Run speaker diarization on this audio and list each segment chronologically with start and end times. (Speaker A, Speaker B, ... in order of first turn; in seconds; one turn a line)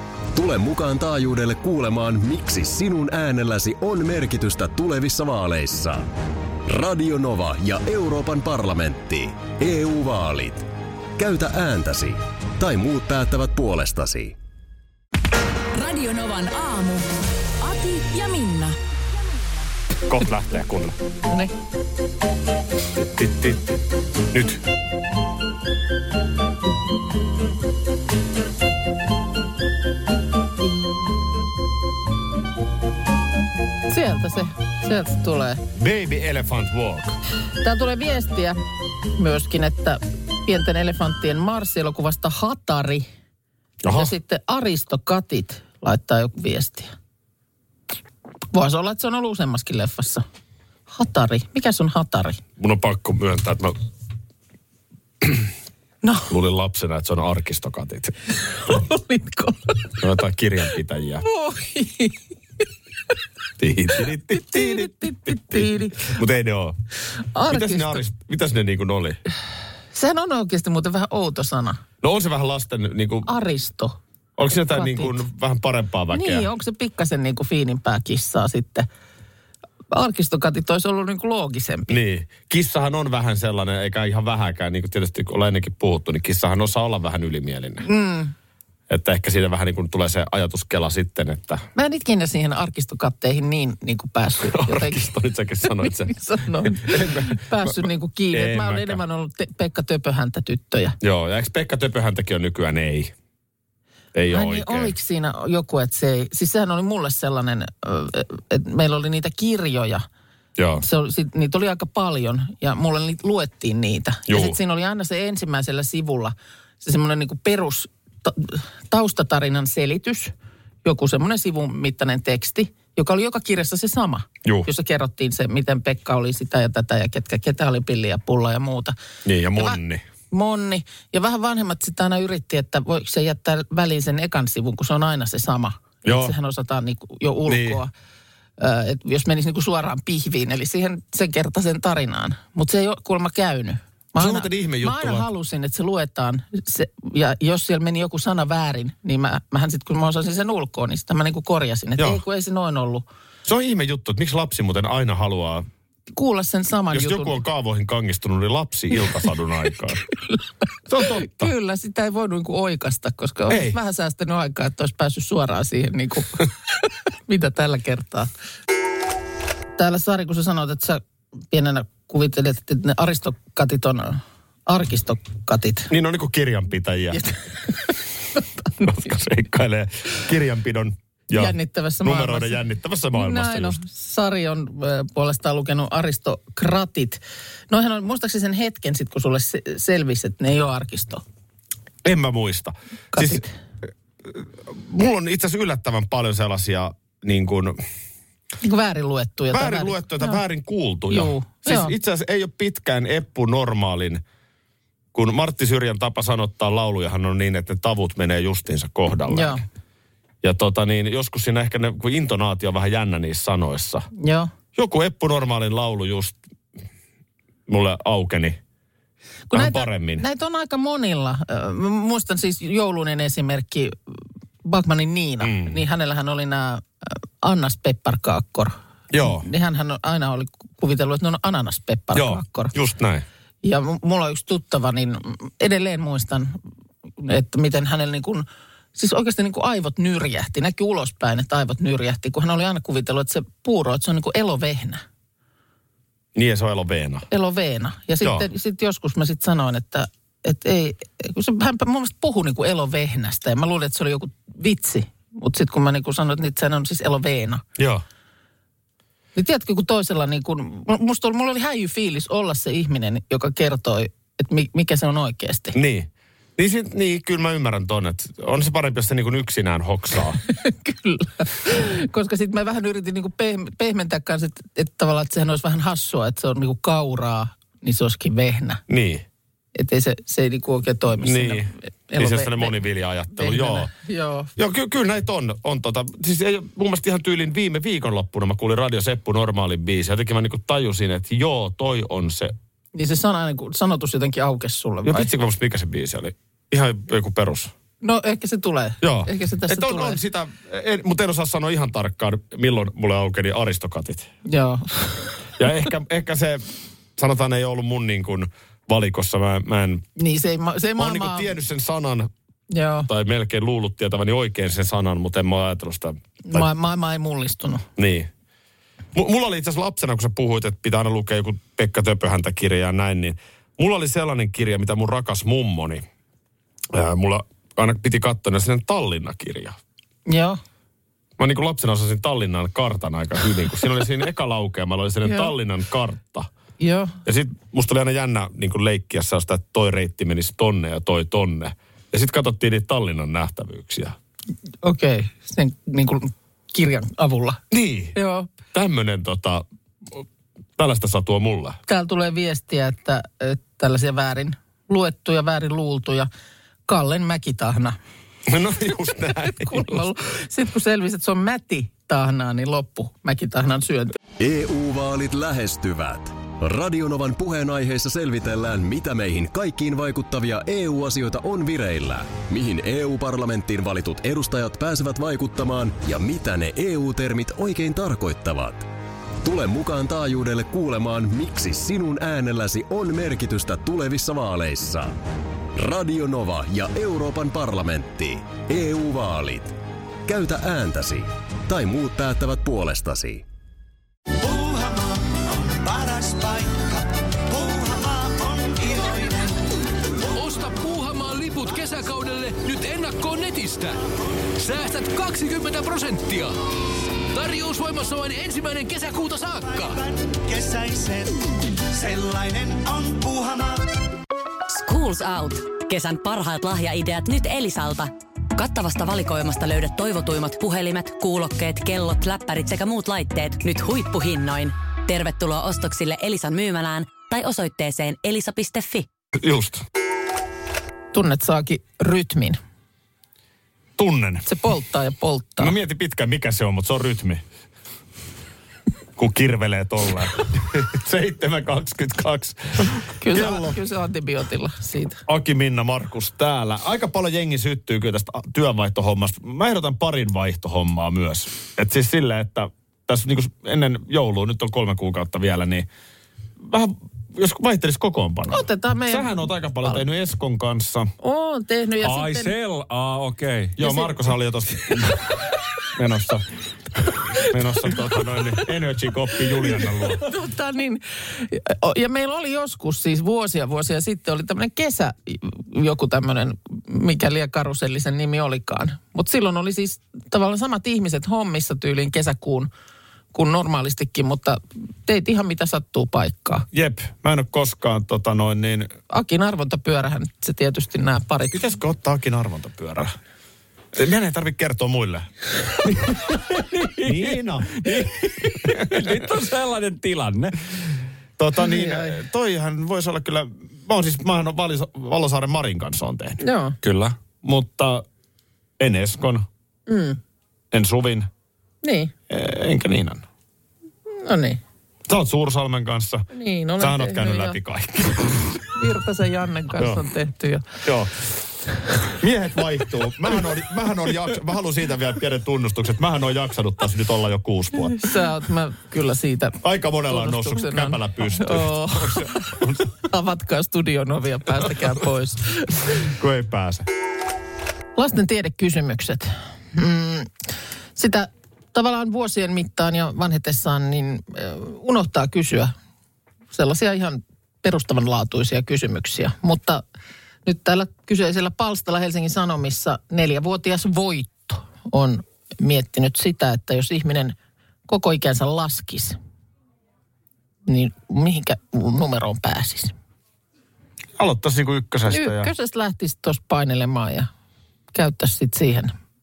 Speaker A: 0.3-6.1
Speaker A: 6.7-14.4
Speaker B: 15.7-17.1
Speaker B: 17.6-19.7
Speaker C: 20.1-21.0
Speaker C: 23.0-23.8
Speaker C: 24.3-24.6
Speaker D: 33.9-35.6
Speaker C: 35.8-37.2
Speaker D: 37.6-38.6
Speaker D: 39.2-43.1
Speaker C: 43.8-44.1
Speaker D: 43.9-46.9
Speaker D: 48.5-50.2
Speaker D: 50.9-52.4
Speaker C: 52.6-53.8
Speaker C: 55.2-55.5
Speaker D: 56.0-56.3
Speaker C: 56.3-58.2
Speaker D: 58.5-60.0
Speaker C: 60.0-61.2
Speaker D: 61.2-62.2
Speaker C: 63.6-66.8
Speaker D: 64.3-66.2
Speaker D: 67.3-68.0
Speaker C: 67.5-69.2
Speaker D: 69.9-71.8
Speaker C: 72.0-73.3
Speaker D: 73.3-74.0
Speaker C: 74.4-76.5
Speaker D: 74.7-75.2
Speaker D: 76.1-78.9
Speaker D: 79.9-82.0
Speaker C: 81.9-87.9
Speaker D: 87.8-88.3
Speaker C: 88.9-91.6
Speaker D: 91.8-95.1
Speaker C: 94.5-99.0
Speaker D: 95.8-101.0
Speaker C: 101.0-103.1
Speaker C: 104.2-104.9
Speaker D: 104.3-110.1
Speaker C: 110.6-110.8
Speaker D: 110.8-120.3
Speaker C: 114.3-114.6
Speaker D: 120.8-129.0
Speaker C: 129.2-130.0
Speaker D: 130.3-137.9
Speaker C: 136.1-136.3
Speaker C: 137.5-137.8
Speaker D: 138.6-153.1
Speaker C: 144.2-145.3
Speaker C: 153.5-155.7
Speaker D: 156.1-157.4
Speaker C: 156.9-160.0
Speaker C: 160.9-161.5
Speaker D: 161.0-168.3
Speaker C: 163.5-163.8
Speaker D: 169.8-175.9
Speaker C: 175.9-177.2
Speaker D: 177.1-178.9
Speaker C: 178.8-183.8
Speaker D: 181.3-191.2
Speaker C: 192.0-193.4
Speaker D: 193.1-193.5
Speaker C: 194.3-197.8
Speaker D: 198.6-200.4
Speaker C: 199.5-204.2
Speaker D: 201.1-201.9
Speaker C: 205.1-209.6
Speaker D: 209.3-209.6
Speaker C: 210.4-214.1
Speaker D: 214.2-214.5
Speaker C: 214.8-216.4
Speaker C: 217.7-218.6
Speaker D: 219.5-232.7
Speaker C: 219.5-220.2
Speaker C: 225.4-225.8
Speaker C: 229.1-229.5
Speaker C: 232.1-233.2
Speaker D: 233.6-236.6
Speaker D: 237.2-245.0
Speaker C: 246.3-247.3
Speaker D: 247.3-257.6
Speaker C: 257.8-258.0
Speaker D: 259.4-265.8
Speaker C: 265.7-270.4
Speaker D: 270.5-278.8
Speaker C: 278.9-279.2
Speaker D: 279.8-282.8
Speaker C: 281.2-283.9
Speaker D: 283.3-284.5
Speaker C: 284.6-292.6
Speaker D: 292.9-295.3
Speaker C: 295.1-297.7
Speaker D: 298.0-300.2
Speaker C: 299.0-304.3
Speaker D: 304.5-305.4
Speaker C: 305.6-306.6
Speaker C: 307.2-310.1
Speaker D: 310.2-311.5
Speaker C: 311.0-312.3
Speaker D: 312.7-313.1
Speaker C: 313.1-316.7
Speaker D: 316.5-317.9
Speaker C: 318.0-318.3
Speaker C: 319.1-326.0
Speaker C: 326.9-329.8
Speaker D: 330.3-330.6
Speaker C: 331.4-336.5
Speaker D: 335.2-335.5
Speaker D: 336.8-337.2
Speaker C: 337.2-344.2
Speaker D: 344.8-347.6
Speaker C: 347.7-348.2
Speaker D: 348.1-348.5
Speaker C: 348.7-350.2
Speaker C: 350.8-351.8
Speaker D: 351.9-356.3
Speaker D: 356.9-358.0
Speaker C: 358.5-360.1
Speaker D: 359.4-364.1
Speaker A: 364.4-378.9
Speaker A: 379.4-385.2
Speaker A: 385.8-393.4
Speaker E: 394.4-399.7
Speaker F: 400.3-404.0
Speaker F: 404.6-406.6
Speaker F: 407.3-410.0
Speaker E: 409.6-413.9
Speaker G: 414.7-429.1
Speaker C: 429.4-429.8
Speaker D: 431.1-432.6
Speaker C: 434.0-434.5
Speaker D: 434.5-435.8
Speaker C: 435.6-437.4
Speaker C: 439.2-443.8
Speaker D: 443.2-445.2
Speaker C: 445.3-455.9
Speaker C: 456.6-461.1
Speaker D: 458.5-460.0
Speaker D: 461.2-462.5
Speaker H: 462.0-463.8
Speaker C: 463.8-465.3
Speaker D: 463.8-464.1
Speaker C: 465.9-466.4
Speaker C: 467.4-470.2
Speaker D: 470.2-482.7
Speaker D: 483.3-486.7
Speaker C: 486.7-488.9
Speaker D: 489.1-491.6
Speaker C: 491.5-493.1
Speaker C: 493.9-495.3
Speaker C: 495.8-496.2
Speaker H: 496.1-500.7
Speaker C: 497.0-498.1
Speaker C: 498.6-499.2
Speaker C: 501.4-506.4
Speaker D: 501.6-502.2
Speaker D: 506.4-506.8
Speaker H: 506.8-507.2
Speaker C: 507.4-508.1
Speaker C: 508.8-509.5
Speaker D: 509.9-510.2
Speaker C: 510.7-511.3
Speaker D: 511.8-512.1
Speaker C: 512.3-513.2
Speaker D: 514.1-514.6
Speaker C: 515.1-516.3
Speaker D: 516.3-517.6
Speaker C: 516.8-518.6
Speaker D: 518.7-520.8
Speaker C: 519.8-520.0
Speaker C: 520.8-521.2
Speaker C: 522.2-528.1
Speaker D: 527.9-536.0
Speaker C: 529.6-532.9
Speaker C: 536.0-536.9
Speaker D: 538.0-540.3
Speaker D: 541.0-545.7
Speaker D: 546.5-549.8
Speaker D: 550.5-557.4
Speaker D: 557.9-559.2
Speaker D: 560.7-562.9
Speaker C: 564.2-565.5
Speaker D: 565.1-567.3
Speaker D: 567.9-569.0